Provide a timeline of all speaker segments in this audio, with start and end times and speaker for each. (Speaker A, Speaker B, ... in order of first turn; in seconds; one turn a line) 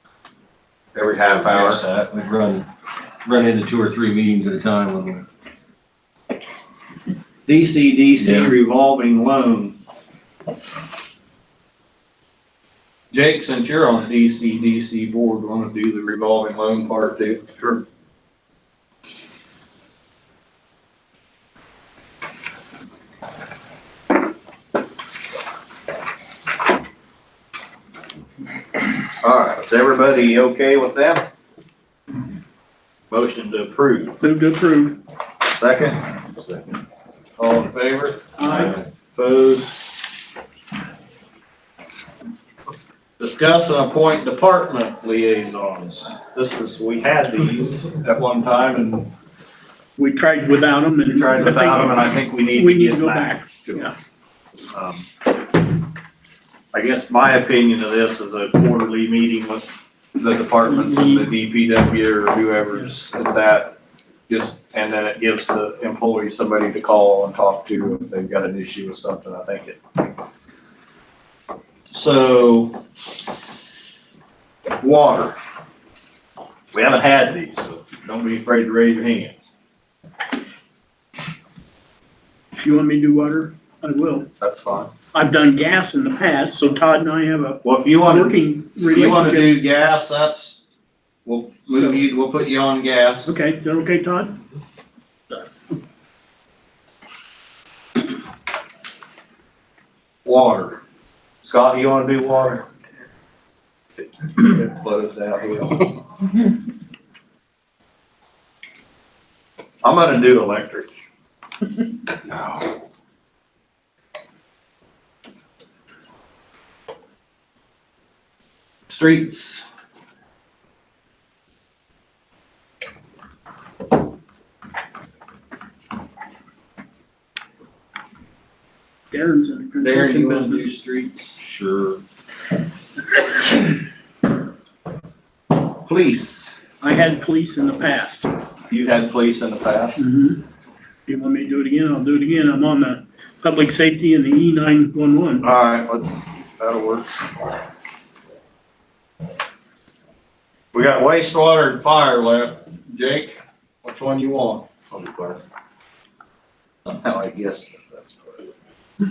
Speaker A: 0.9-1.8
Speaker B: 1.4-2.7
Speaker B: 3.2-5.2
Speaker A: 7.5-9.8
Speaker B: 8.2-8.5
Speaker A: 13.1-17.8
Speaker A: 29.2-31.2
Speaker A: 33.1-34.2
Speaker C: 34.2-35.0
Speaker A: 35.5-36.0
Speaker A: 37.4-39.7
Speaker C: 38.4-38.7
Speaker A: 43.2-49.1
Speaker C: 50.0-53.9
Speaker A: 51.1-53.9
Speaker A: 54.7-55.1
Speaker A: 56.7-69.8
Speaker C: 60.6-61.3
Speaker A: 71.9-72.8
Speaker A: 74.8-75.4
Speaker A: 76.7-79.5
Speaker C: 82.6-84.3
Speaker A: 84.4-84.9
Speaker C: 85.1-89.6
Speaker A: 87.6-90.6
Speaker A: 91.2-93.3
Speaker C: 91.7-92.0
Speaker C: 93.2-94.4
Speaker A: 100.2-100.8
Speaker A: 101.4-102.7
Speaker A: 104.0-106.0
Speaker A: 109.8-110.9
Speaker B: 112.3-112.6
Speaker A: 118.9-119.6
Speaker C: 129.1-130.7
Speaker A: 129.8-131.4
Speaker B: 131.5-132.0
Speaker A: 135.8-136.4
Speaker C: 136.8-138.3
Speaker A: 138.7-140.0
Speaker C: 140.0-140.4
Speaker C: 141.1-145.4
Speaker A: 145.4-147.1
Speaker A: 150.7-154.7
Speaker B: 154.9-155.4
Speaker A: 156.8-158.5